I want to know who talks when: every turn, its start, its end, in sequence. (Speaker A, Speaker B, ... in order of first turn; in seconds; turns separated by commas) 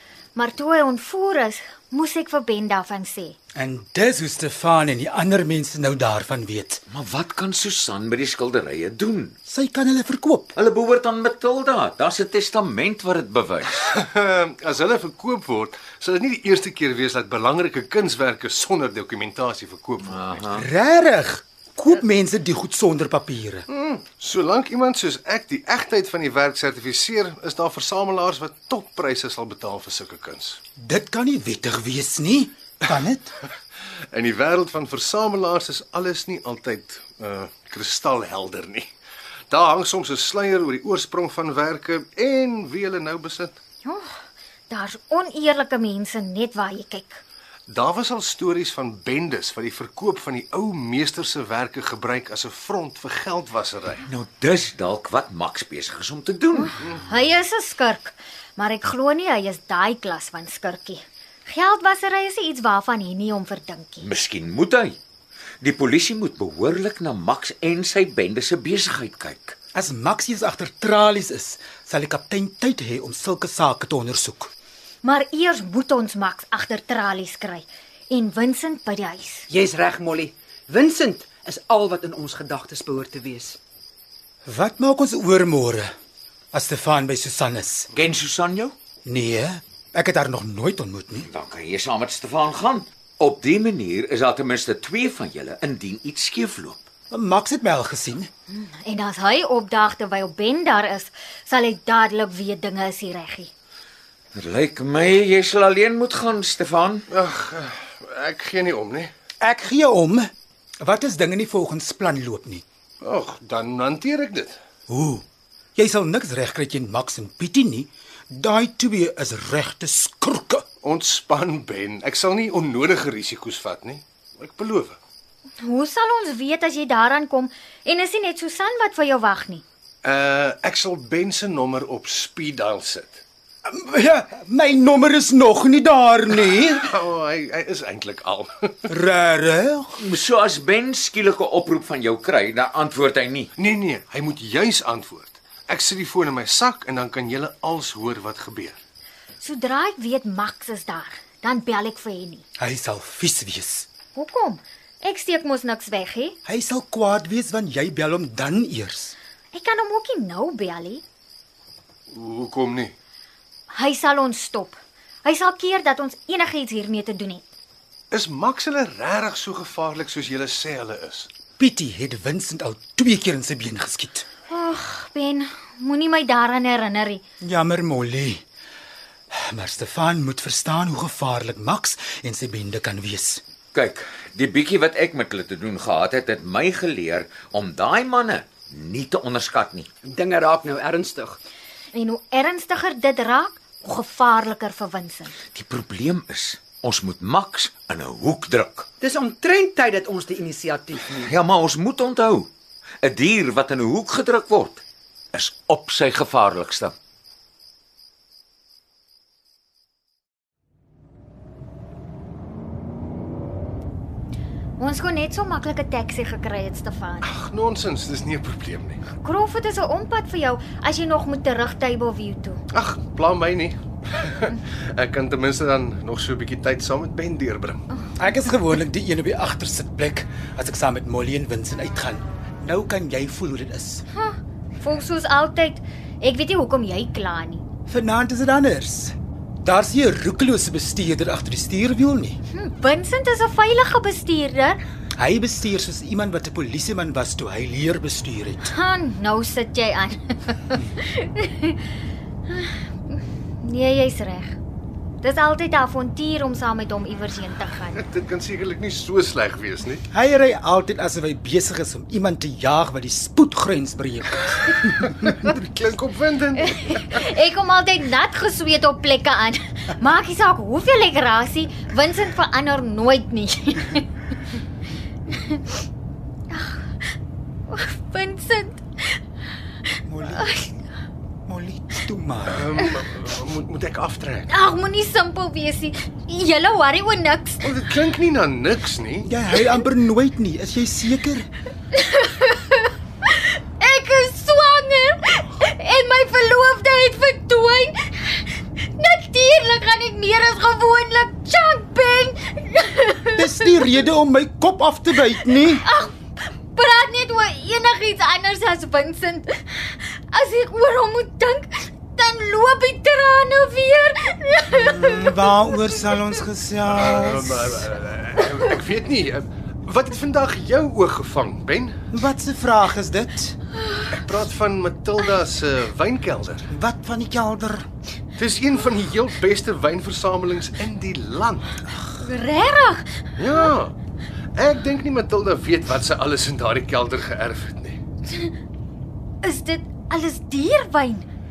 Speaker A: 0.3-3.4, Speaker B: 3.6-6.8, Speaker C: 6.9-9.3, Speaker B: 9.5-10.6, Speaker C: 10.6-13.8, Speaker D: 13.9-20.4, Speaker C: 20.0-20.7, Speaker B: 20.6-23.7, Speaker D: 23.7-30.6, Speaker B: 30.8-33.4, Speaker D: 34.1-38.9, Speaker D: 39.5-43.6, Speaker A: 43.8-44.1, Speaker A: 44.7-47.2, Speaker D: 47.7-54.0, Speaker C: 54.0-56.8, Speaker A: 56.6-64.1, Speaker C: 64.0-65.0, Speaker C: 65.6-69.5, Speaker B: 69.7-74.5, Speaker A: 75.0-79.5, Speaker E: 79.5-83.6, Speaker B: 84.5-85.9, Speaker B: 86.5-87.9, Speaker C: 87.9-88.8, Speaker B: 89.1-91.3, Speaker C: 91.2-96.9, Speaker B: 97.1-98.3, Speaker A: 98.5-103.5, Speaker C: 104.3-107.1, Speaker D: 107.1-109.1, Speaker B: 109.4-110.3, Speaker B: 110.8-112.6, Speaker D: 113.0-114.6, Speaker B: 114.9-115.2, Speaker B: 115.8-120.7, Speaker D: 120.8-125.0, Speaker A: 125.6-129.6, Speaker D: 130.0-133.2, Speaker B: 133.7-136.9, Speaker D: 136.7-138.7, Speaker B: 138.9-140.0, Speaker C: 140.0-143.5, Speaker D: 143.6-148.8, Speaker A: 149.4-152.4, Speaker B: 152.6-153.9, Speaker A: 154.2-156.4, Speaker B: 156.4-159.2, Speaker A: 159.5-161.0, Speaker D: 162.1-162.9, Speaker A: 163.7-167.5, Speaker D: 168.1-171.3, Speaker B: 171.6-174.3, Speaker A: 174.5-177.2, Speaker B: 177.4-178.4, Speaker B: 179.3-183.4, Speaker C: 183.7-189.9, Speaker E: 190.0-191.4, Speaker A: 191.9-195.3, Speaker C: 195.5-198.9, Speaker E: 199.0-201.3, Speaker C: 201.1-202.5, Speaker C: 203.0-206.9, Speaker A: 214.8-217.3, Speaker D: 217.2-219.0, Speaker A: 219.2-222.6, Speaker D: 222.7-227.8, Speaker B: 228.2-234.0, Speaker A: 234.1-237.6, Speaker B: 237.9-242.4, Speaker A: 242.5-244.8, Speaker B: 245.2-248.7, Speaker A: 248.7-251.8, Speaker A: 252.5-254.6, Speaker A: 255.2-258.0, Speaker D: 258.0-260.0, Speaker B: 260.1-265.3, Speaker D: 265.1-267.0, Speaker A: 266.6-274.1, Speaker A: 275.3-275.6, Speaker A: 276.5-276.9, Speaker A: 277.7-279.2, Speaker B: 280.1-280.5, Speaker A: 280.3-280.7, Speaker B: 281.5-282.7, Speaker D: 282.5-284.5, Speaker A: 284.5-287.7, Speaker D: 287.6-289.3, Speaker B: 289.2-291.5, Speaker A: 291.9-303.8, Speaker B: 303.4-305.8, Speaker A: 305.4-306.1, Speaker A: 306.7-315.6, Speaker B: 314.7-317.9, Speaker D: 317.0-322.0, Speaker B: 322.1-323.6, Speaker D: 324.1-326.7, Speaker B: 326.7-327.9, Speaker D: 328.4-331.9, Speaker A: 332.2-333.7, Speaker D: 333.4-333.9, Speaker D: 334.6-338.0, Speaker A: 339.4-341.3